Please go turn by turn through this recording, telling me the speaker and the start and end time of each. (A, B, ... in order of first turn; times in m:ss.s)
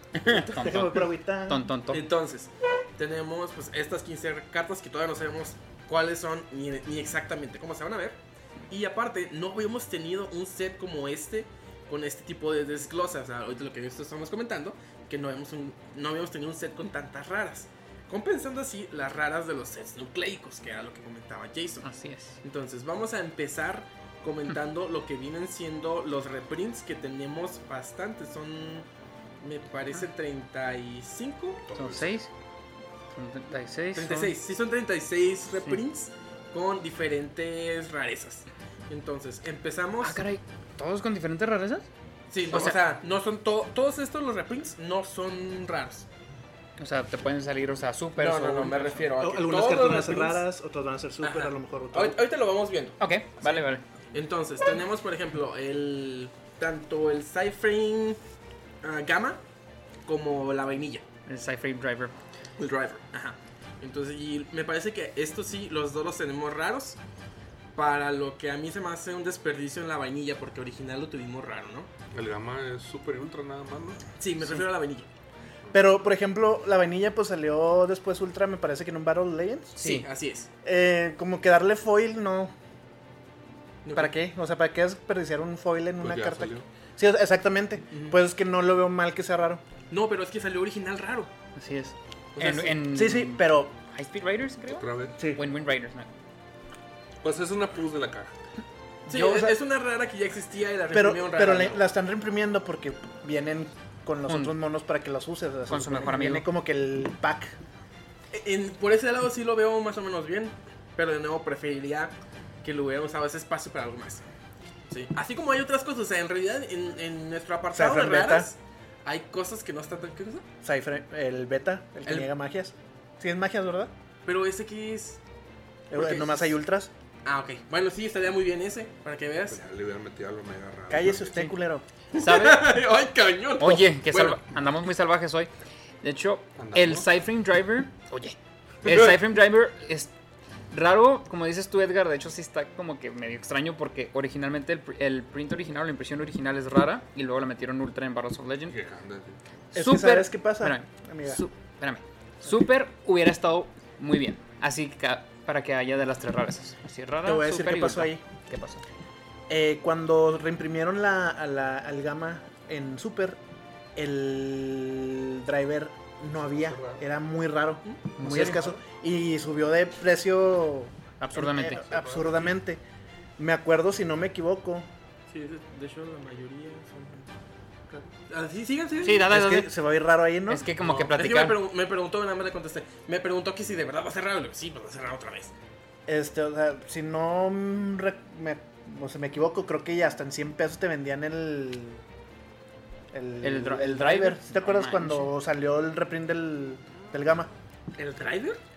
0:00.2-0:02.0 A
0:00.3-0:01.7 B
0:01.9-0:21.9 C
0:21.8-0:22.4 A
0:22.4-0:28.9 C
0:29.4-0:31.6 C
0:31.7-0:32.2 D
0:31.8-0:32.3 A
0:33.1-0:34.3 A
0:34.0-0:40.2 C
0:35.5-0:35.8 A
0:40.0-0:41.9 A
0:42.3-0:46.1 C
0:42.5-0:42.8 A
0:46.8-0:49.0 A
0:48.2-0:50.4 C
0:49.2-0:52.2 B
0:51.2-0:58.2 C
0:53.0-0:53.8 A
0:58.8-0:59.4 C
1:00.1-1:01.0 C
1:01.3-1:02.2 A
1:02.6-1:07.0 C
1:07.8-1:11.9 C
1:12.1-1:14.0 D
1:14.2-1:15.1 C
1:15.7-1:19.8 B
1:19.8-1:20.1 A
1:19.8-1:20.5 C
1:20.6-1:22.5 B
1:23.8-1:24.2 C
1:24.0-1:29.6 B
1:26.0-1:26.6 D
1:27.9-1:28.2 C
1:29.9-1:31.3 C
1:31.6-1:36.1 A
1:32.4-1:32.8 C
1:32.9-1:33.8 B
1:34.7-1:35.2 D
1:37.2-1:38.3 D
1:39.1-1:41.9 C
1:39.1-1:39.6 B
1:40.9-1:47.6 B
1:44.3-1:44.6 A
1:45.7-1:46.5 A
1:48.3-1:54.2 C
1:54.9-2:00.4 C
1:57.7-1:58.5 B
2:00.6-2:03.9 B
2:02.0-2:02.3 C
2:04.3-2:05.2 C
2:05.9-2:06.9 B
2:05.9-2:06.6 C
2:07.2-2:09.6 C
2:09.5-2:11.5 D
2:10.9-2:11.8 B
2:12.1-2:14.4 C
2:12.2-2:12.8 A
2:13.6-2:15.5 A
2:16.0-2:20.1 A
2:16.6-2:17.1 D
2:20.7-2:28.8 A
2:28.7-2:29.4 D
2:29.7-2:38.8 A
2:29.7-2:31.4 B
2:37.2-2:38.2 B
2:39.5-2:43.4 B
2:44.0-2:52.8 B
2:46.6-2:47.0 C
2:47.8-2:48.7 C
2:48.2-2:48.6 A
2:51.2-2:51.8 A
2:51.9-2:52.5 C
2:53.4-2:54.9 B
2:55.3-2:57.3 C
2:58.2-2:59.3 C
2:59.0-2:59.7 A
2:59.2-3:00.7 B
3:00.5-3:01.6 A
3:00.8-3:05.5 C
3:06.1-3:12.0 B
3:13.1-3:17.5 B
3:13.4-3:15.3 A
3:18.0-3:18.6 C